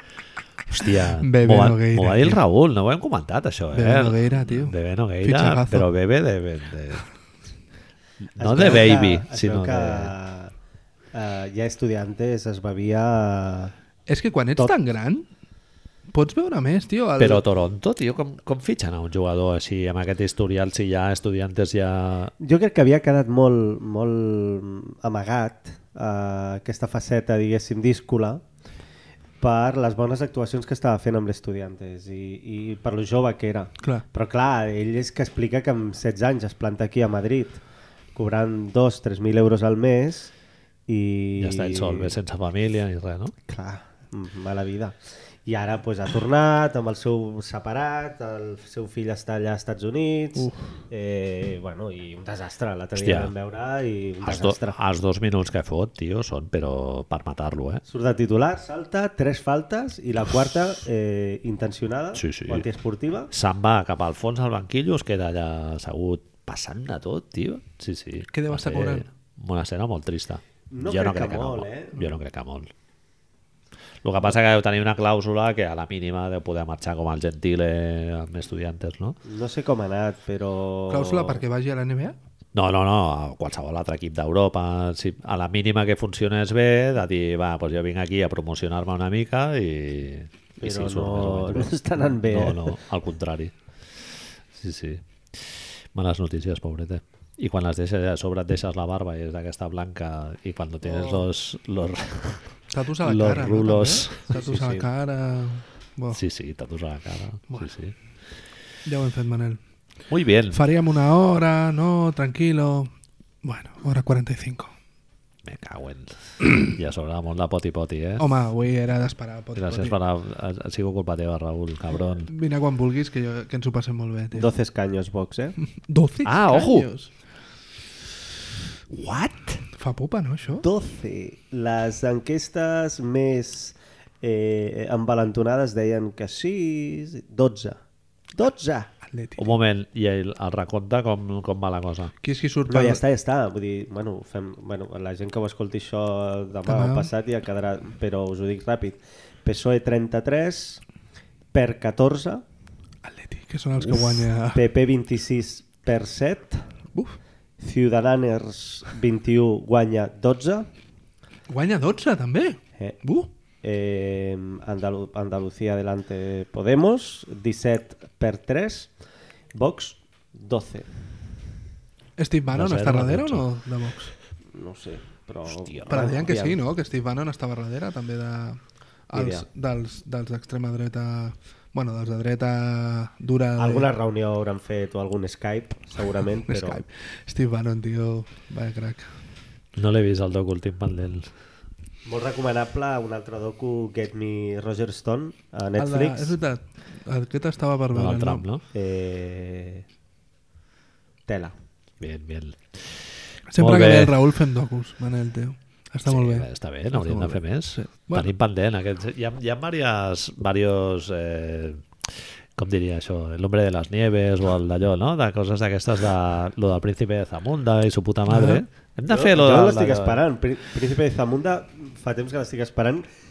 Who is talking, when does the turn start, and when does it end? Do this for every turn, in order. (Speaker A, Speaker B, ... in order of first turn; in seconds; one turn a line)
Speaker A: 0.7-7.1
Speaker B: 1.2-2.4
Speaker B: 3.7-5.9
Speaker A: 8.4-10.1
Speaker C: 8.4-10.5
Speaker C: 11.1-13.7
Speaker B: 14.1-15.3
Speaker B: 16.1-17.4
Speaker A: 17.2-22.3
Speaker C: 22.4-28.4
Speaker C: 29.4-37.6
Speaker C: 38.1-40.3
Speaker C: 40.9-42.1
Speaker A: 41.4-43.3
Speaker C: 43.5-54.8
Speaker B: 50.4-50.6
Speaker A: 53.0-53.3
Speaker A: 54.2-57.8
Speaker C: 57.9-63.3
Speaker A: 62.2-62.7
Speaker A: 63.3-72.7
Speaker B: 68.3-69.1
Speaker C: 70.7-72.1
Speaker A: 74.0-79.2
Speaker C: 79.2-81.4
Speaker B: 80.9-82.2
Speaker A: 82.5-93.5
Speaker C: 90.6-92.8
Speaker A: 94.5-102.5
Speaker B: 102.7-106.2
Speaker A: 103.0-104.8
Speaker A: 106.1-108.0
Speaker B: 108.8-109.6
Speaker A: 110.1-110.6
Speaker B: 110.5-112.9
Speaker B: 113.4-114.7
Speaker A: 115.4-118.3
Speaker B: 118.2-120.0
Speaker A: 119.5-122.3
Speaker B: 122.3-124.5
Speaker C: 124.3-125.6
Speaker B: 125.8-127.1
Speaker A: 126.2-126.9
Speaker A: 129.1-129.6
Speaker B: 129.8-130.7
Speaker C: 130.6-137.8
Speaker C: 138.3-138.9
Speaker B: 139.1-139.5
Speaker A: 139.4-142.1
Speaker B: 142.2-143.0
Speaker C: 142.7-150.8
Speaker B: 146.7-147.1
Speaker C: 151.5-152.4
Speaker B: 153.0-154.6
Speaker C: 154.5-156.7
Speaker C: 157.6-160.7
Speaker B: 161.5-163.3
Speaker C: 163.6-168.9
Speaker C: 169.5-170.9
Speaker B: 172.2-174.1
Speaker A: 172.5-173.5
Speaker C: 174.5-176.6
Speaker A: 175.5-175.9
Speaker B: 175.9-183.9
Speaker C: 179.1-179.5
Speaker C: 183.6-186.8
Speaker B: 186.5-189.1
Speaker A: 189.8-191.3
Speaker C: 192.1-196.4
Speaker B: 195.8-198.4
Speaker A: 197.9-198.6
Speaker C: 198.7-199.8
Speaker C: 201.3-201.6
Speaker A: 202.0-204.2
Speaker B: 203.5-208.3
Speaker A: 206.1-220.2
Speaker B: 218.3-218.6
Speaker C: 219.1-223.1